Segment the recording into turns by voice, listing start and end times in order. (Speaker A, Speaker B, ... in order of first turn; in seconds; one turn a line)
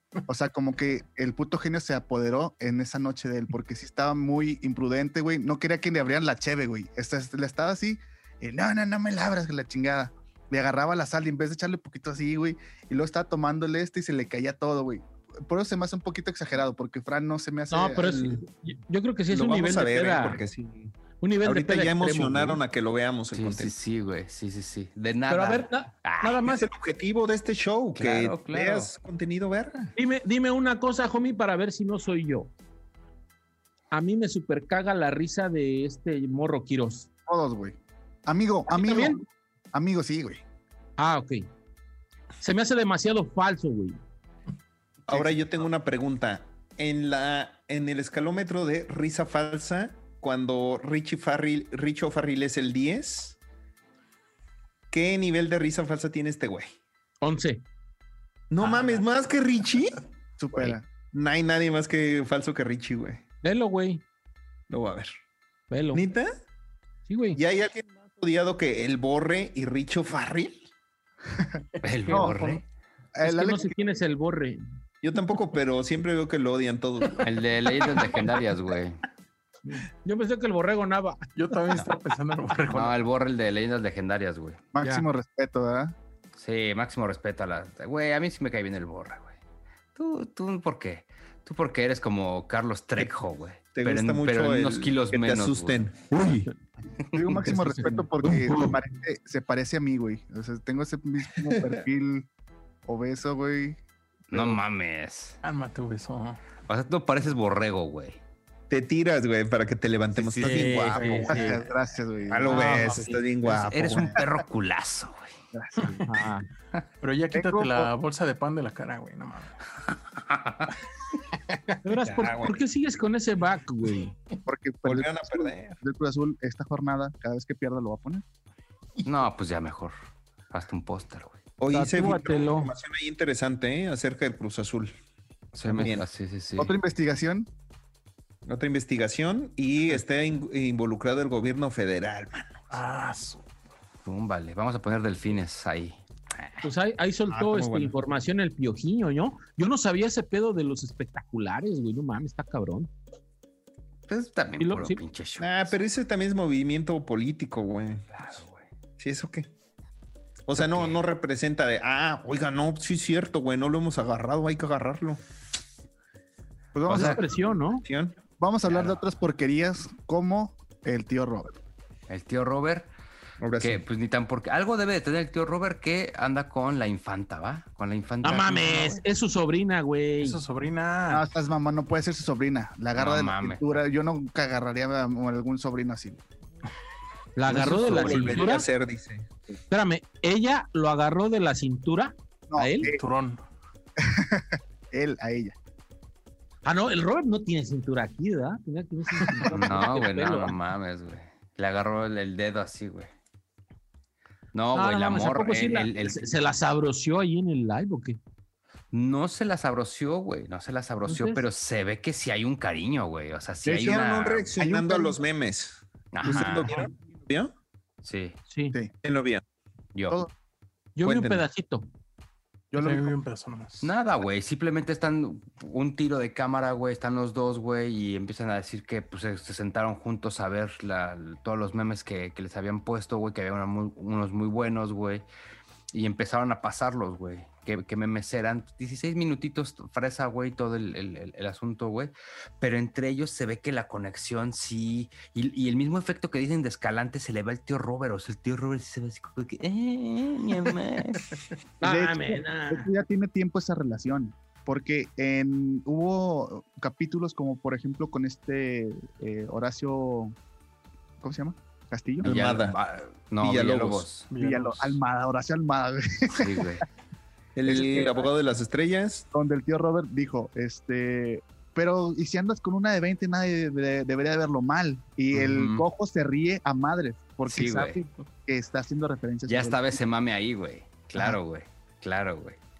Speaker A: 0.3-18.2
Speaker B: 17.7-20.4
Speaker C: 18.0-18.4
Speaker C: 19.3-23.7
Speaker B: 21.2-22.6
Speaker D: 23.3-26.4
Speaker B: 25.3-26.6
Speaker C: 26.4-29.9
Speaker D: 27.9-28.9
Speaker B: 29.9-32.5
Speaker B: 33.9-37.1
Speaker A: 37.3-39.2
Speaker B: 38.7-39.2
Speaker A: 39.7-40.4
Speaker B: 41.0-41.5
Speaker B: 42.4-44.0
Speaker C: 45.1-53.4
Speaker C: 54.9-56.8
Speaker B: 57.2-57.6
Speaker C: 58.5-60.0
Speaker B: 58.6-59.0
Speaker A: 60.4-60.9
Speaker C: 61.1-63.2
Speaker B: 63.4-64.0
Speaker C: 64.7-65.1
Speaker B: 65.7-66.0
Speaker C: 65.9-66.3
Speaker B: 67.1-67.4
Speaker C: 67.3-70.6
Speaker A: 71.4-72.5
Speaker D: 71.8-72.6
Speaker A: 73.2-73.7
Speaker B: 73.2-74.6
Speaker C: 75.0-77.3
Speaker D: 77.2-79.0
Speaker B: 79.7-81.3
Speaker E: 81.3-83.0
Speaker D: 82.7-84.6
Speaker A: 84.7-85.9
Speaker B: 84.8-85.1
Speaker D: 86.3-89.3
Speaker D: 89.9-95.8
Speaker C: 93.7-96.1
Speaker B: 96.2-96.5
Speaker A: 97.1-102.3
Speaker B: 97.5-98.7
Speaker C: 101.5-101.8
Speaker A: 102.8-103.8
Speaker D: 104.3-105.4
Speaker E: 105.4-106.4
Speaker D: 106.7-108.2
Speaker C: 108.7-111.5
Speaker B: 110.4-111.6
Speaker E: 110.4-111.5
Speaker D: 110.5-110.7
Speaker A: 111.3-112.9
Speaker C: 112.3-114.2
Speaker B: 112.5-113.2
Speaker D: 113.4-115.3
Speaker A: 115.5-116.0
Speaker E: 115.8-116.1
Speaker B: 116.0-116.5
Speaker E: 117.0-119.6
Speaker A: 117.3-117.9
Speaker D: 120.3-120.7
Speaker E: 121.5-121.8
Speaker B: 121.8-124.1
Speaker C: 122.0-122.6
Speaker A: 124.5-128.2
Speaker C: 124.8-125.8
Speaker D: 129.0-129.9
Speaker D: 130.5-131.4
Speaker C: 131.6-134.9
Speaker B: 131.7-132.7
Speaker D: 135.5-136.7
Speaker C: 135.7-136.1
Speaker A: 136.6-137.5
Speaker C: 138.4-142.8
Speaker E: 142.7-143.4
Speaker D: 144.0-146.6
Speaker B: 146.6-152.9
Speaker C: 147.3-147.9
Speaker D: 154.1-155.7
Speaker B: 154.6-155.0
Speaker C: 155.4-158.2
Speaker D: 158.1-158.6
Speaker C: 159.0-159.5
Speaker C: 160.5-165.2
Speaker D: 160.6-161.0
Speaker A: 166.7-167.2
Speaker D: 166.9-167.2
Speaker C: 166.9-167.2
Speaker B: 166.9-167.8
Speaker C: 167.7-168.2
Speaker A: 168.4-171.5
Speaker D: 168.7-169.0
Speaker D: 172.1-172.9
Speaker C: 173.4-173.8
Speaker D: 173.6-179.0
Speaker B: 178.2-180.4
Speaker E: 180.2-181.3
Speaker A: 181.1-186.2
Speaker D: 182.9-183.6
Speaker B: 187.3-188.7
Speaker C: 187.5-189.3
Speaker B: 189.7-192.9
Speaker A: 192.5-193.0
Speaker E: 192.9-193.4
Speaker A: 194.0-195.5
Speaker B: 196.6-200.5
Speaker E: 199.2-199.5
Speaker D: 199.4-203.1
Speaker D: 204.5-206.6
Speaker B: 204.7-208.2
Speaker D: 208.9-214.5
Speaker B: 211.1-211.4
Speaker A: 213.7-214.0
Speaker C: 213.7-217.5
Speaker A: 214.5-215.2
Speaker D: 216.1-216.8
Speaker D: 218.0-218.4
Speaker B: 218.5-218.8
Speaker C: 219.0-219.4
Speaker D: 219.9-220.2
Speaker B: 220.9-221.9
Speaker C: 221.0-221.4
Speaker A: 222.7-223.2
Speaker E: 222.7-223.9
Speaker D: 223.8-235.2
Speaker D: 235.9-251.4
Speaker B: 251.8-252.9
Speaker A: 251.8-260.3
Speaker A: 261.2-262.3
Speaker C: 262.2-262.8
Speaker D: 262.2-264.3
Speaker C: 263.4-264.1
Speaker E: 264.3-264.9
Speaker A: 264.4-266.8
Speaker D: 266.3-266.8
Speaker C: 267.6-269.3
Speaker A: 267.7-268.2
Speaker A: 269.3-280.0
Speaker D: 275.3-275.9
Speaker D: 277.5-278.0
Speaker D: 279.5-282.6